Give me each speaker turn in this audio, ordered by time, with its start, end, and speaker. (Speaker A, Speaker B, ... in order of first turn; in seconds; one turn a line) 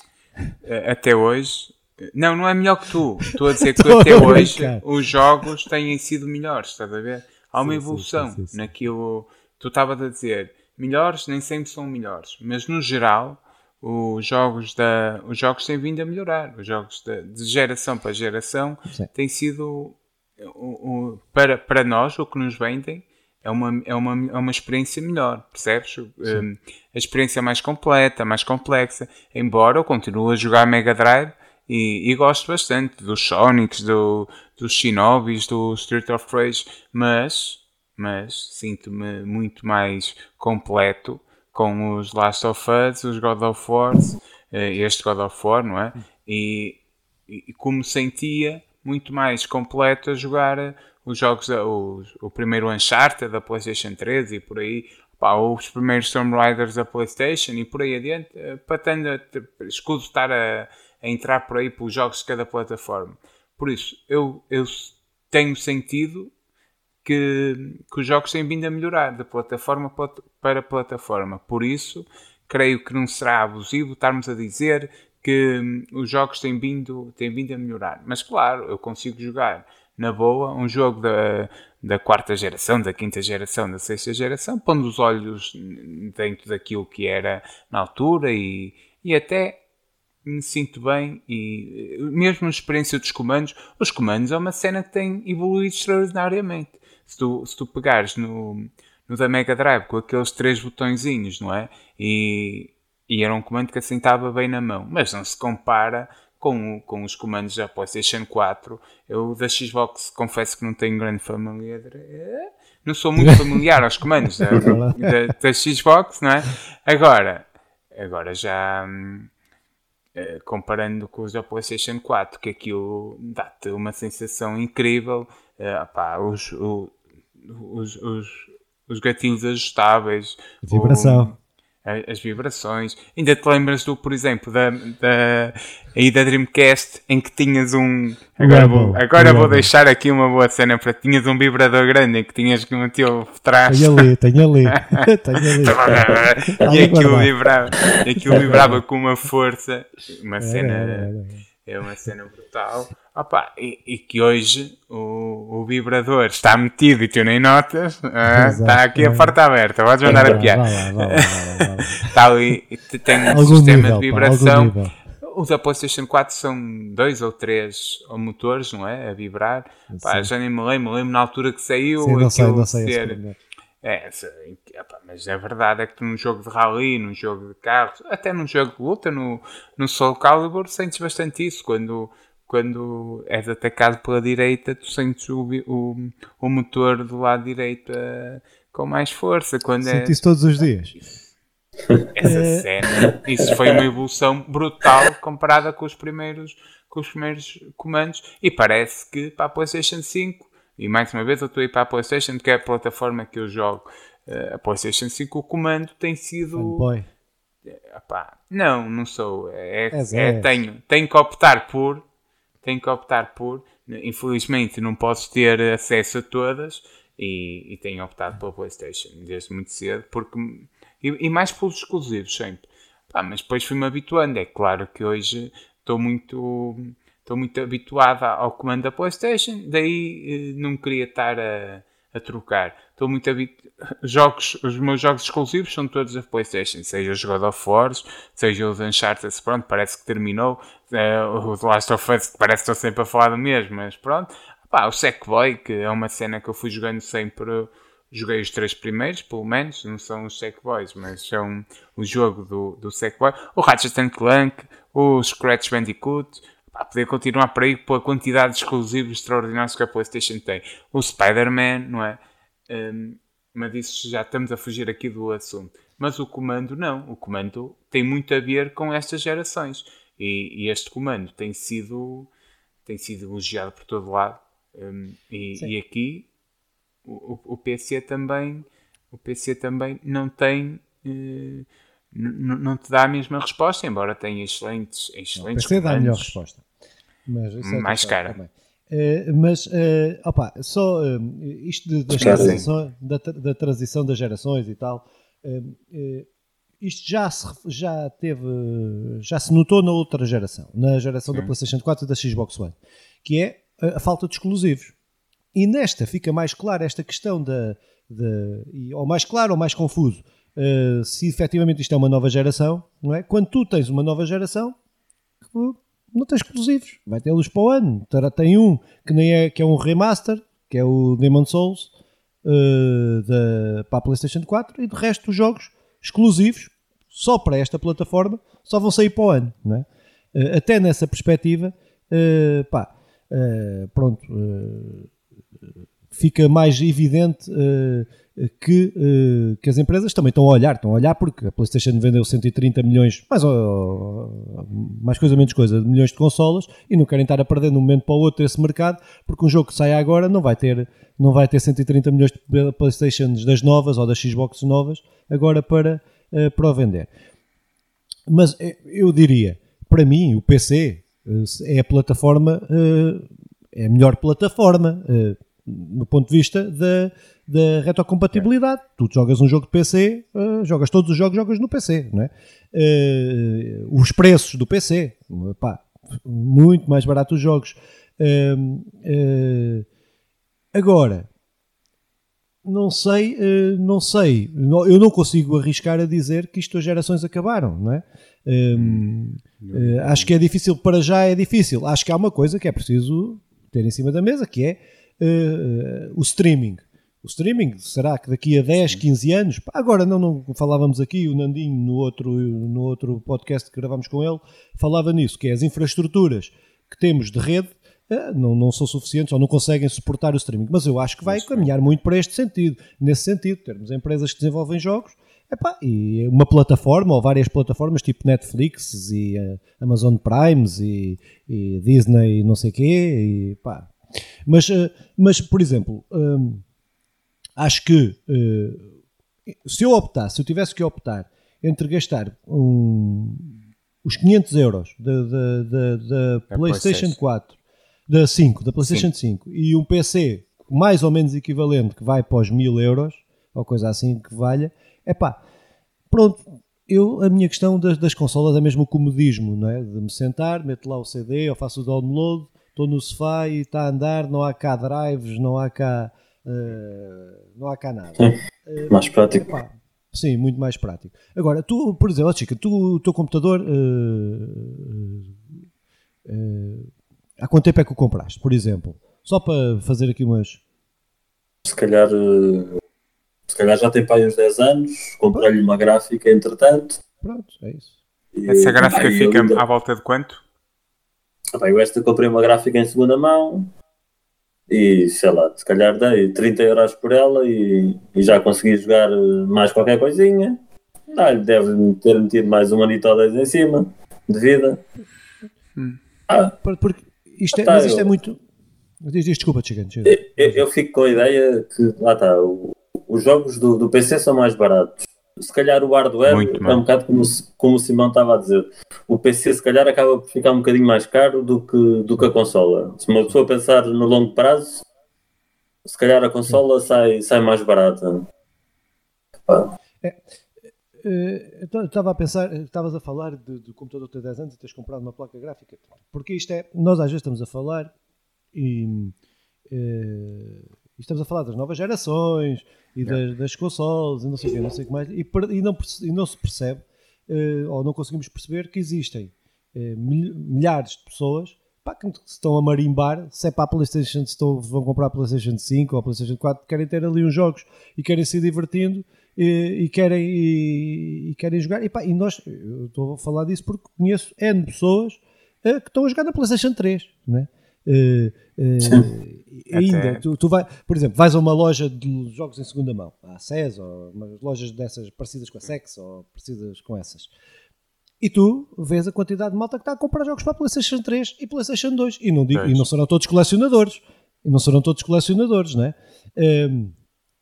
Speaker A: 0.6-66.3
Speaker B: 3.6-4.8
Speaker B: 7.6-8.6
Speaker A: 67.0-89.6
Speaker A: 90.2-119.3
Speaker B: 113.2-113.6
Speaker B: 114.5-115.1
Speaker A: 120.2-144.1
Speaker B: 130.6-131.3
Speaker B: 138.4-139.7
Speaker B: 143.7-147.3
Speaker A: 144.7-151.1
Speaker B: 148.3-148.7
Speaker B: 150.4-151.4
Speaker A: 151.6-173.2
Speaker B: 158.3-159.3
Speaker B: 160.1-162.2
Speaker B: 163.3-164.9
Speaker B: 169.9-170.3
Speaker B: 172.0-173.3
Speaker A: 173.8-190.2
Speaker B: 189.8-190.9
Speaker A: 190.9-191.3
Speaker A: 192.1-206.8
Speaker B: 192.2-192.7
Speaker B: 206.5-207.1
Speaker A: 207.7-212.0
Speaker B: 209.9-210.6
Speaker A: 212.6-272.3
Speaker A: 272.8-276.3
Speaker A: 277.0-286.4
Speaker B: 285.3-286.6
Speaker B: 287.3-296.3
Speaker A: 287.6-288.4
Speaker C: 292.1-292.6
Speaker A: 292.2-292.6
Speaker B: 296.8-304.9
Speaker B: 305.5-314.8
Speaker B: 315.5-321.9
Speaker B: 322.4-335.1
Speaker B: 336.1-357.1
Speaker B: 358.3-379.9
Speaker B: 380.7-381.3
Speaker B: 382.6-423.9
Speaker A: 388.7-389.1
Speaker A: 389.6-390.3
Speaker A: 411.2-411.8
Speaker B: 424.4-426.6
Speaker B: 427.6-428.9
Speaker B: 429.5-437.5
Speaker A: 436.5-437.2
Speaker B: 438.1-445.4
Speaker B: 446.1-465.4
Speaker C: 458.9-459.5
Speaker B: 466.2-470.6
Speaker C: 471.6-472.8
Speaker C: 473.5-477.0
Speaker B: 477.2-477.9
Speaker C: 478.3-479.6
Speaker A: 478.5-480.4
Speaker C: 481.5-483.7
Speaker C: 484.7-490.6
Speaker C: 491.1-494.8
Speaker C: 496.3-496.5
Speaker B: 496.6-498.4
Speaker C: 497.5-498.1
Speaker B: 499.0-500.6
Speaker C: 500.1-514.8
Speaker A: 506.3-506.8
Speaker C: 515.8-518.2
Speaker B: 521.0-527.9
Speaker B: 528.5-529.1
Speaker B: 529.7-567.3
Speaker A: 559.7-560.2
Speaker B: 568.2-576.9
Speaker A: 572.5-572.9